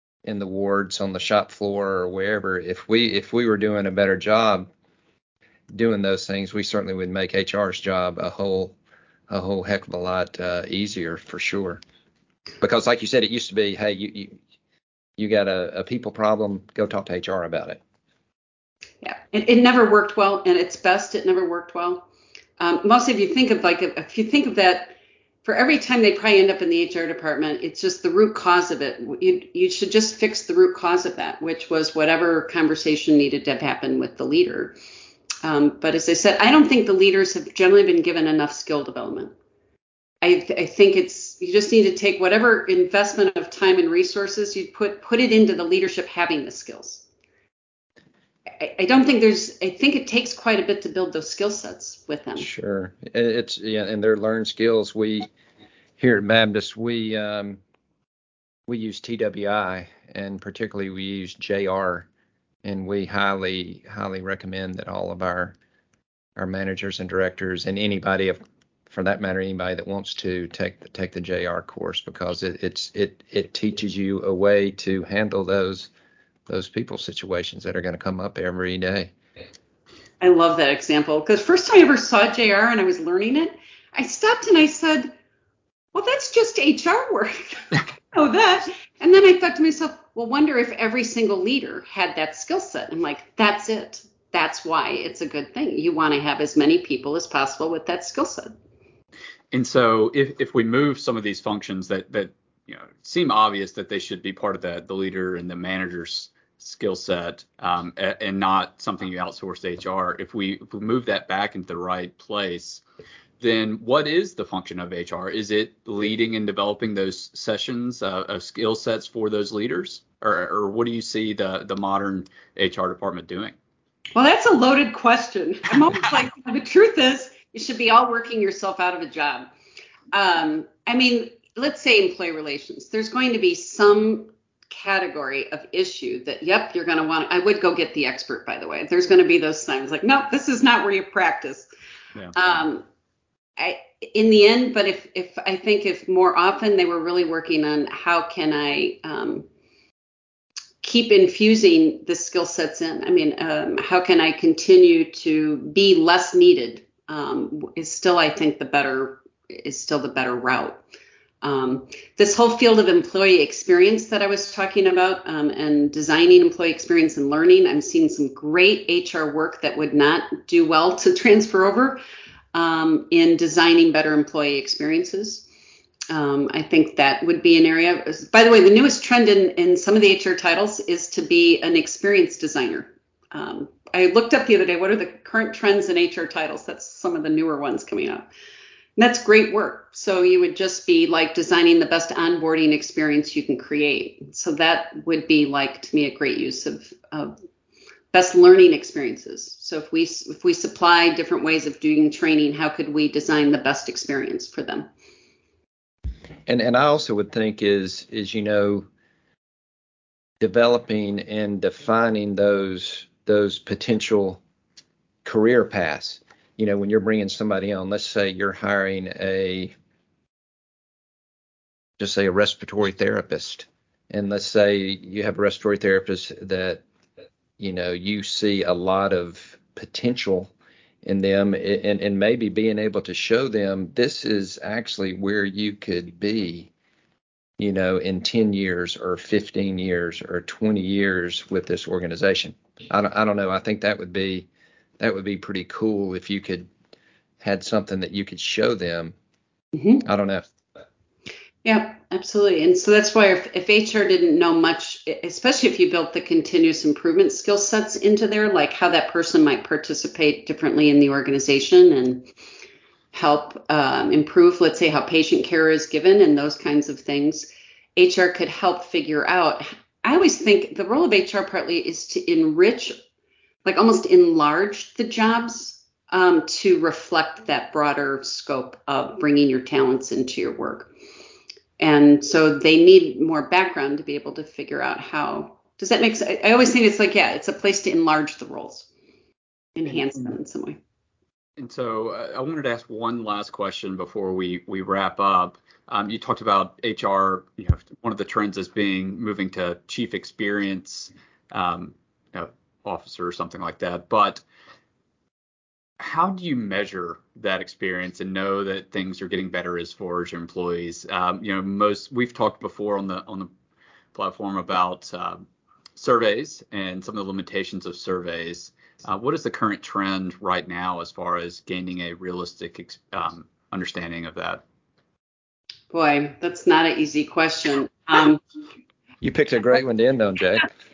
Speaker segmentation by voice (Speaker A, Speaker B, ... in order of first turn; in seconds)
Speaker A: 0.2-4.7, 5.7-8.8, 9.3-11.8, 12.6-14.4, 15.2-17.8, 52.4-55.3, 56.0-57.6, 58.7-62.1, 62.6-65.5, 66.4-75.9, 76.5-79.1, 206.5-208.9, 210.4-214.4, 215.2-219.7, 222.0-226.8, 227.6-230.5, 231.0-236.7, 237.6-244.5, 245.0-246.7, 247.4-249.1, 250.0-250.4, 329.2-330.7
Speaker B: 19.0-22.1, 22.6-34.8, 35.4-39.3, 40.2-47.0, 48.6-52.5, 80.2-85.1, 85.9-98.5, 124.1-129.5, 130.1-141.7, 142.3-142.8, 143.6-149.4, 150.8-160.8, 161.4-172.0, 172.5-175.4, 176.1-188.3, 189.0-197.3, 198.1-204.9, 249.7-250.0, 251.6-262.3, 263.1-272.9, 273.6-280.9, 281.8-288.9, 289.8-290.8, 325.9-328.4
Speaker C: 99.5-112.8, 113.4-123.5, 291.6-304.4, 306.0-313.5, 314.1-315.4, 315.9-324.6